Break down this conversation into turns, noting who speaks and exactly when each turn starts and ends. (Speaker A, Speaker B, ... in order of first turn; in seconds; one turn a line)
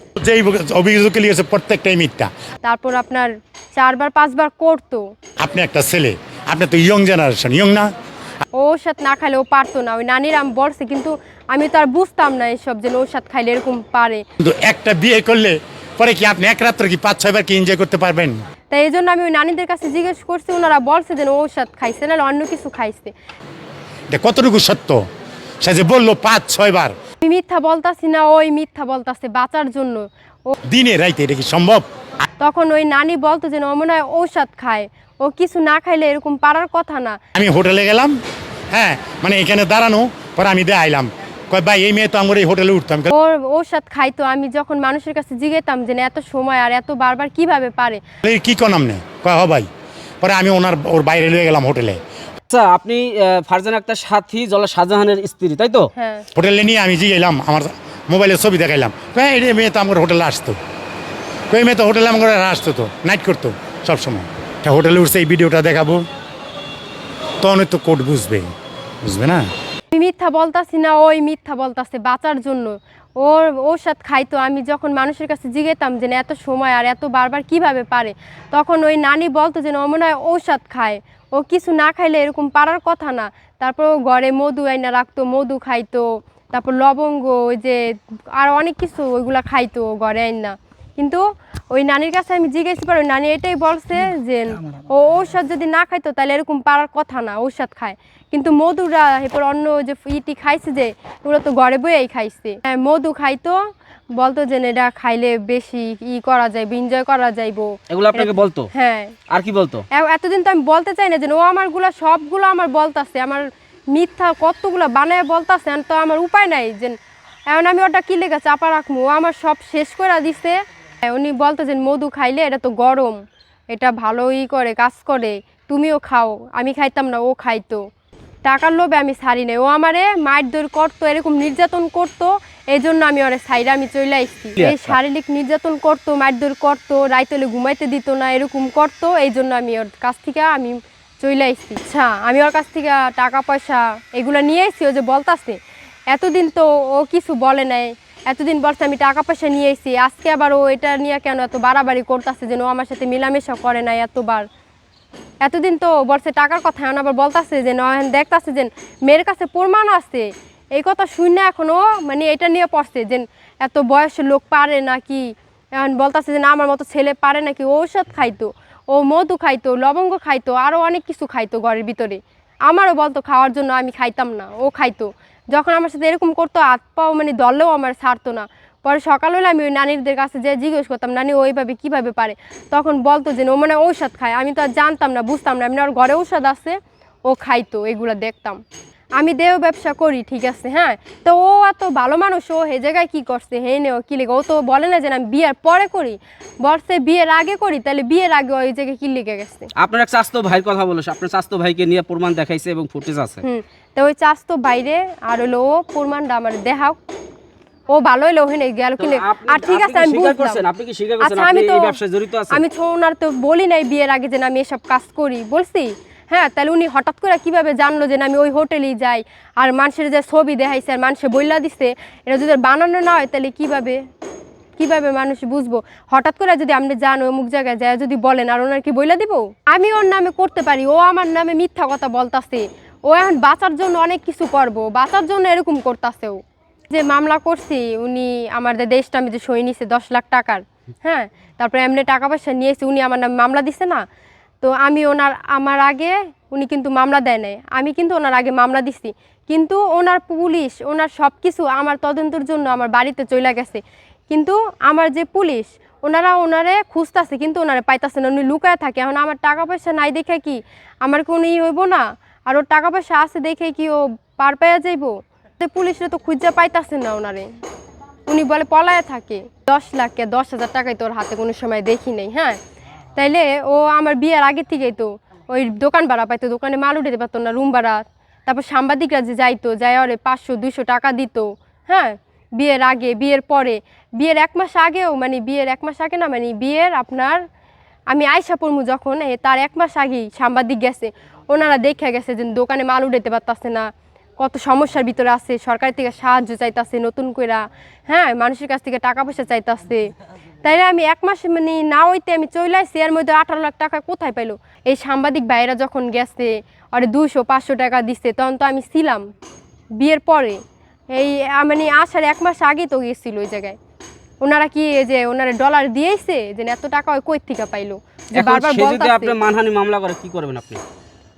Speaker A: 0.2-2.3
Speaker B: 2.6-5.1
Speaker A: 5.4-7.9
Speaker B: 8.5-14.2
Speaker A: 14.4-18.4
Speaker B: 18.7-23.1
Speaker A: 24.1-25.0
Speaker A: 25.6-26.9
Speaker B: 27.2-30.6
Speaker A: 30.7-31.9
Speaker B: 32.4-37.2
Speaker A: 37.4-38.1
Speaker A: 38.7-43.1
Speaker B: 43.1-48.0
Speaker A: 48.2-49.7
Speaker A: 50.2-52.0
Speaker C: 52.5-55.9
Speaker B: 56.0-56.3
Speaker A: 56.3-60.6
Speaker A: 61.5-66.0
Speaker A: 67.4-68.5
Speaker A: 69.0-69.5
Speaker B: 69.9-103.6
Speaker B: 104.2-109.2
Speaker C: 107.9-108.7
Speaker C: 109.3-109.8
Speaker B: 109.9-117.0
Speaker B: 117.5-123.2
Speaker B: 123.7-127.8
Speaker B: 128.4-145.6
Speaker C: 134.6-135.0
Speaker B: 146.1-154.5
Speaker B: 155.4-188.6
Speaker B: 189.2-199.7
Speaker C: 199.8-203.4
Speaker B: 203.4-207.0
Speaker B: 207.9-210.6
Speaker C: 209.0-212.6
Speaker B: 211.2-211.9
Speaker B: 212.5-224.0
Speaker B: 224.8-244.0
Speaker B: 244.6-267.5
Speaker B: 268.3-272.6
Speaker B: 273.1-287.4
Speaker B: 288.1-300.1
Speaker B: 300.6-309.3
Speaker B: 310.0-310.6
Speaker B: 311.1-313.8
Speaker B: 314.4-319.4
Speaker C: 318.4-320.8